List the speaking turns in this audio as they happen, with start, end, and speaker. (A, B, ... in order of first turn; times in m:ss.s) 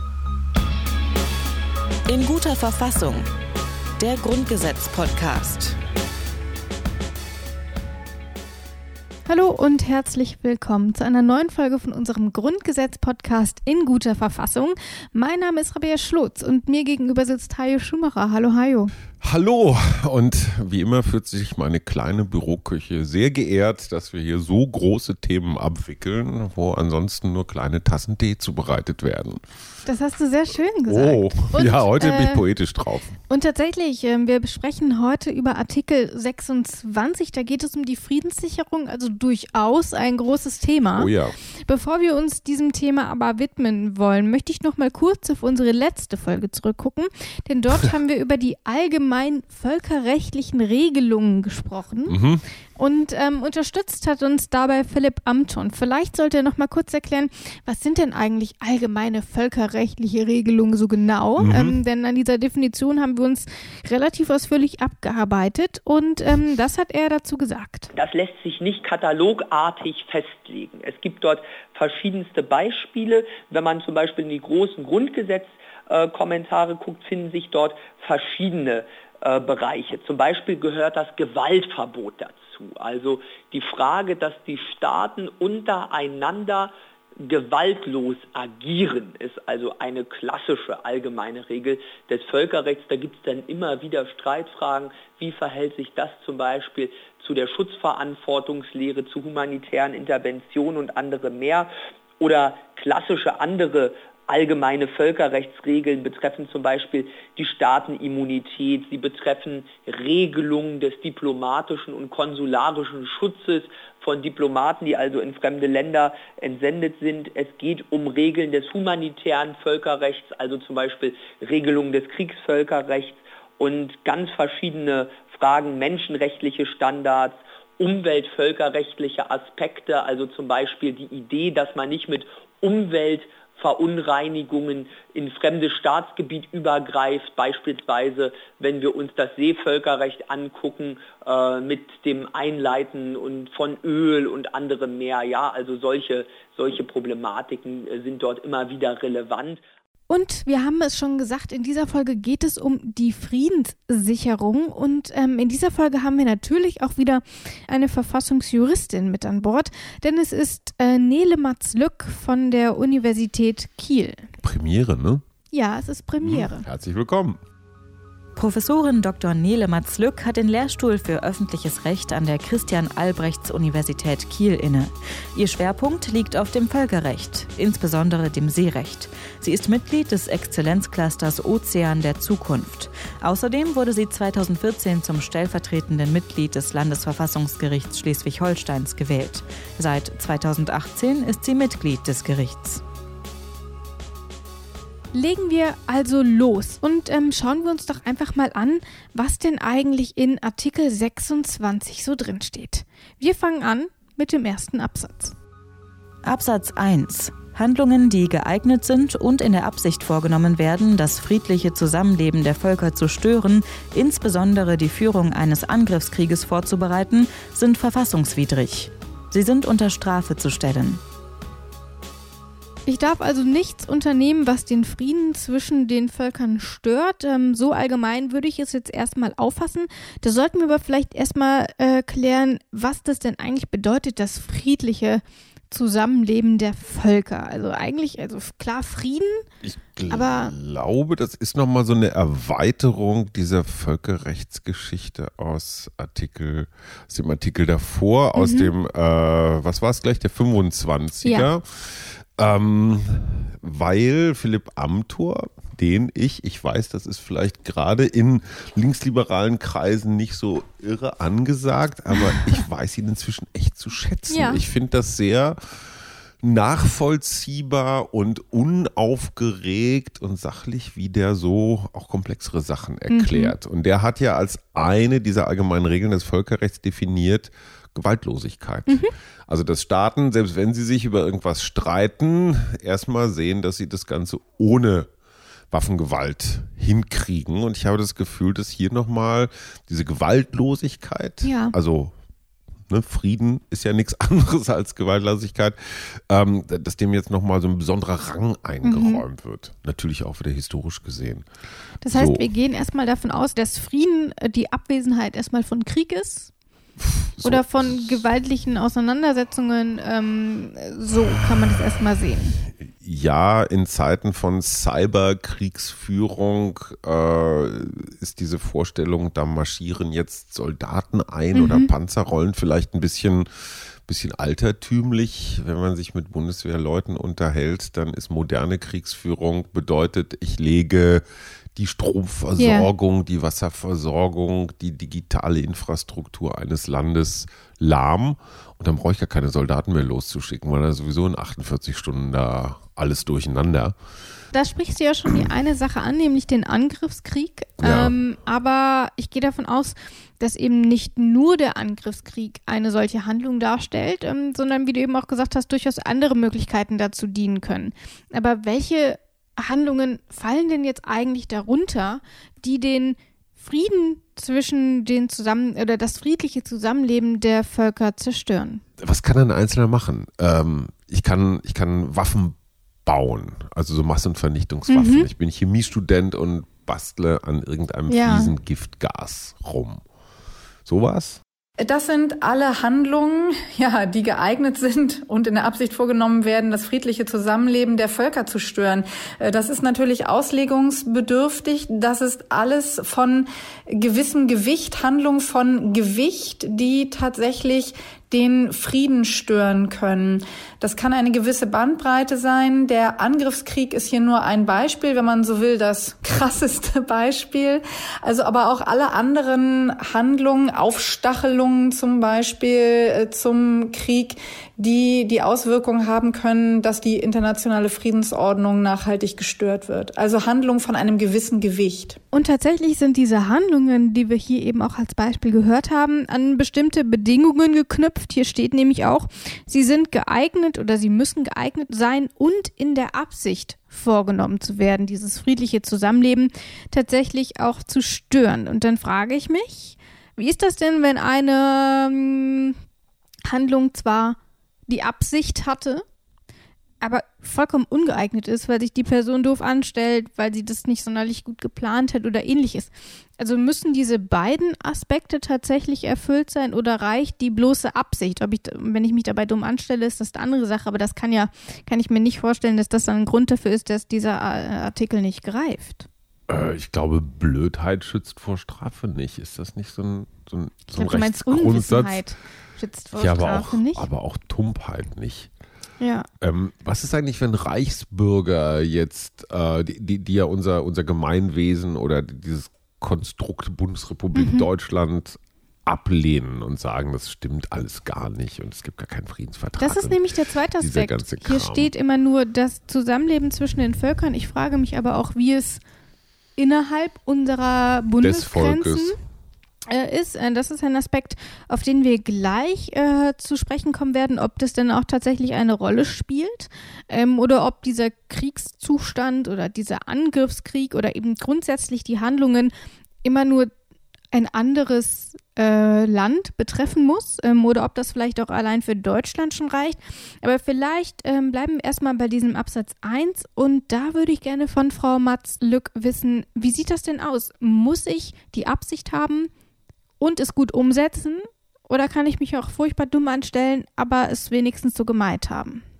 0:02.1-0:03.3 A
0:04.0-0:05.8 A
0:09.3-0:18.9 B
0:19.2-0:29.4 C
0:29.8-0:32.4 B
0:30.9-0:33.2 C
0:33.3-0:41.1 B
0:40.9-0:41.3 C
0:41.6-0:52.2 B
0:52.1-0:52.4 C
0:52.8-1:07.9 B
1:01.4-1:01.8 C
1:07.9-2:29.6 D
2:30.1-2:44.3 B
2:44.4-2:45.2 C
2:45.5-2:46.6 B
2:46.2-2:47.4 C
2:48.4-3:12.8 A
3:15.1-3:25.3 B
3:26.2-3:41.0 A
3:42.9-3:59.4 B
3:59.6-4:25.6 C
4:00.1-4:00.5 B
4:08.3-4:08.7 B
4:11.2-4:11.5 B
4:24.3-4:24.6 B
4:26.4-4:45.1 C
4:33.1-4:33.5 B
4:45.7-4:52.1 C
4:51.4-4:51.8 B
4:52.9-5:01.4 C
4:58.8-4:59.2 B
5:02.0-5:06.5 B
5:02.0-5:02.4 C
5:07.0-5:08.2 C
5:07.4-5:12.6 B
5:12.9-5:23.5 C
5:21.5-5:21.9 B
5:24.0-5:31.2 C
5:31.7-5:43.9 C
5:32.6-5:32.9 B
5:44.5-6:08.8 B
5:47.8-5:48.1 C
6:09.0-6:20.0 C
6:14.9-6:15.3 B
6:18.1-6:18.5 B
6:20.8-6:21.4 C
6:21.8-7:02.2 E
7:02.3-7:22.8 B
7:23.5-7:26.0 B
7:27.0-7:46.0 B
7:46.5-7:52.2 C
7:50.9-7:54.0 B
7:53.2-7:55.5 C
7:56.0-7:56.3 B
7:56.4-8:10.2 C
8:04.3-8:04.6 B
8:09.8-8:15.8 B
8:10.8-8:11.9 C
8:16.6-8:19.2 B
8:18.2-8:19.1 C
8:19.9-8:32.7 B
8:33.2-8:33.7 B
8:34.3-8:49.5 B
8:50.2-8:55.8 B